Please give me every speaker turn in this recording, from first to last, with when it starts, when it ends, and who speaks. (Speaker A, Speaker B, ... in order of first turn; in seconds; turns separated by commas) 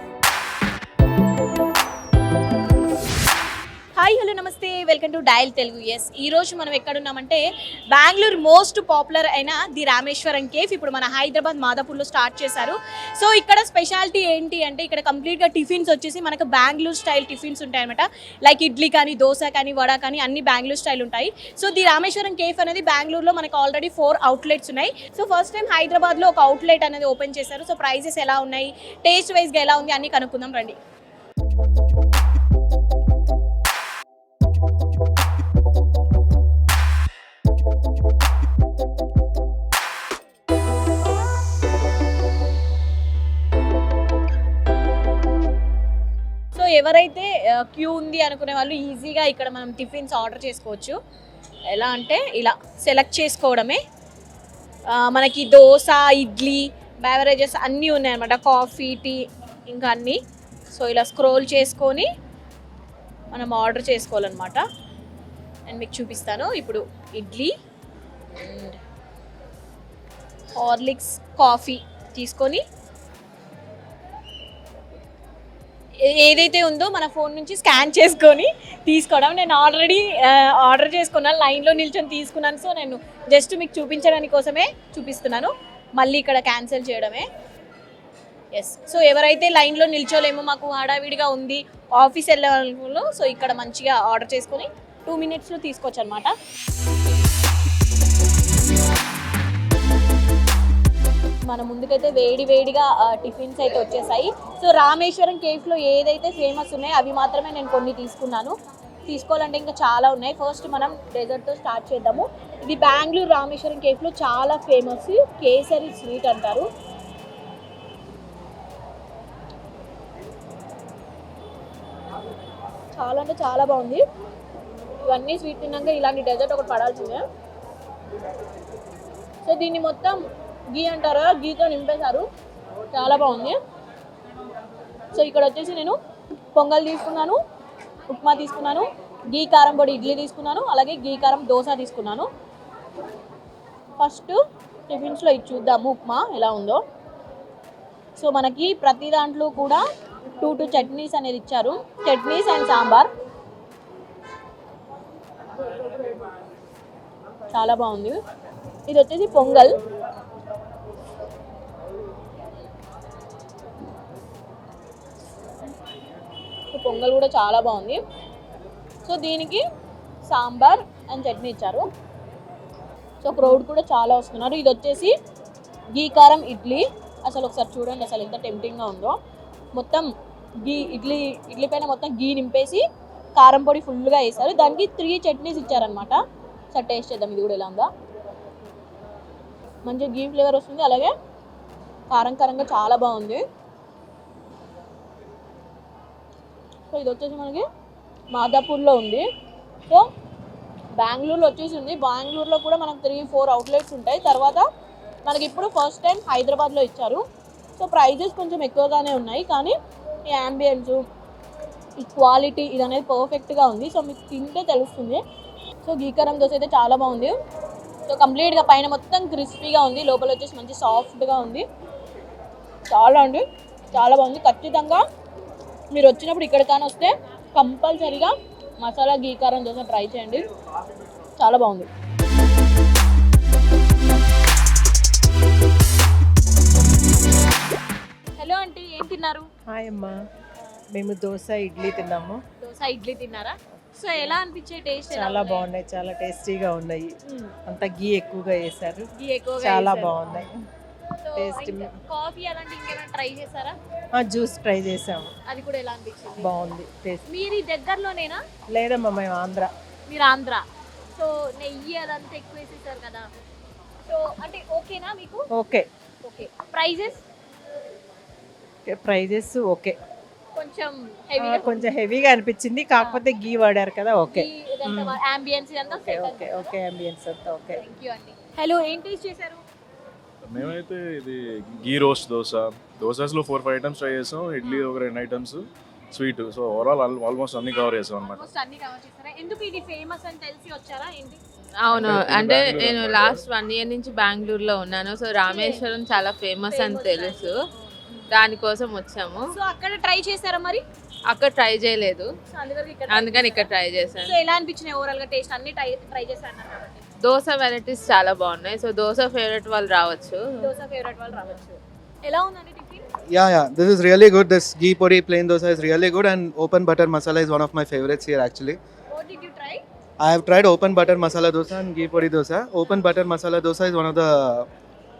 Speaker A: 4.0-30.8, Speaker A: 46.5-51.0, Speaker A: 51.7-53.8, Speaker A: 54.9-60.2, Speaker A: 60.7-62.1, Speaker A: 63.3-64.6, Speaker A: 65.7-67.5, Speaker A: 68.3-68.8, Speaker A: 70.5-72.6, Speaker A: 76.0-87.3, Speaker A: 88.5-96.3, Speaker A: 101.5-108.5, Speaker A: 109.1-116.7, Speaker A: 122.9-124.0, Speaker A: 125.0-127.2, Speaker A: 129.4-132.3, Speaker A: 132.9-133.6, Speaker A: 135.1-136.0, Speaker A: 136.5-137.4, Speaker A: 138.1-142.3, Speaker A: 144.0-146.8, Speaker A: 148.2-149.8, Speaker A: 150.4-153.1, Speaker A: 157.5-158.2, Speaker A: 158.9-159.7, Speaker A: 166.7-168.0, Speaker A: 169.0-169.6, Speaker A: 170.2-171.8, Speaker A: 173.2-175.1, Speaker A: 175.9-179.2, Speaker A: 179.7-180.1, Speaker A: 180.6-182.8, Speaker A: 183.4-186.2, Speaker A: 186.7-187.9, Speaker A: 189.8-191.1, Speaker A: 192.1-193.4, Speaker A: 196.9-197.7, Speaker A: 198.3-199.2, Speaker A: 201.0-204.7, Speaker A: 205.2-207.2, Speaker A: 207.8-211.0, Speaker A: 212.0-215.2, Speaker A: 215.8-217.3, Speaker A: 218.1-221.7, Speaker A: 222.9-225.0, Speaker A: 225.9-230.4, Speaker A: 231.4-231.9, Speaker A: 238.3-239.5, Speaker B: 239.7-240.2, Speaker B: 240.9-242.4, Speaker A: 242.6-245.7, Speaker B: 245.1-247.1, Speaker A: 247.2-247.5, Speaker B: 247.7-249.1, Speaker A: 249.2-250.4, Speaker B: 249.6-250.5, Speaker A: 251.2-253.8, Speaker B: 251.3-251.9, Speaker B: 254.2-255.3, Speaker A: 255.5-256.5, Speaker B: 256.4-257.2, Speaker A: 257.2-258.4, Speaker B: 258.7-259.7, Speaker A: 260.1-260.6, Speaker A: 261.1-263.3, Speaker A: 264.1-265.4, Speaker B: 265.5-265.9, Speaker A: 266.2-267.2, Speaker B: 268.9-269.9, Speaker A: 270.5-271.9, Speaker B: 271.4-275.2, Speaker A: 273.0-273.3, Speaker A: 274.3-276.7, Speaker B: 276.0-277.8, Speaker A: 277.7-279.6, Speaker C: 280.4-288.4, Speaker A: 284.6-284.9, Speaker A: 288.2-291.4, Speaker D: 291.8-297.5, Speaker C: 291.9-293.4, Speaker A: 295.4-295.8, Speaker A: 296.7-298.3, Speaker D: 298.3-299.5, Speaker A: 299.5-300.8, Speaker D: 301.3-302.3, Speaker A: 302.5-307.0, Speaker D: 303.1-304.3, Speaker D: 307.2-310.4, Speaker A: 310.6-313.0, Speaker E: 313.3-318.8, Speaker A: 319.1-319.8, Speaker E: 320.2-324.7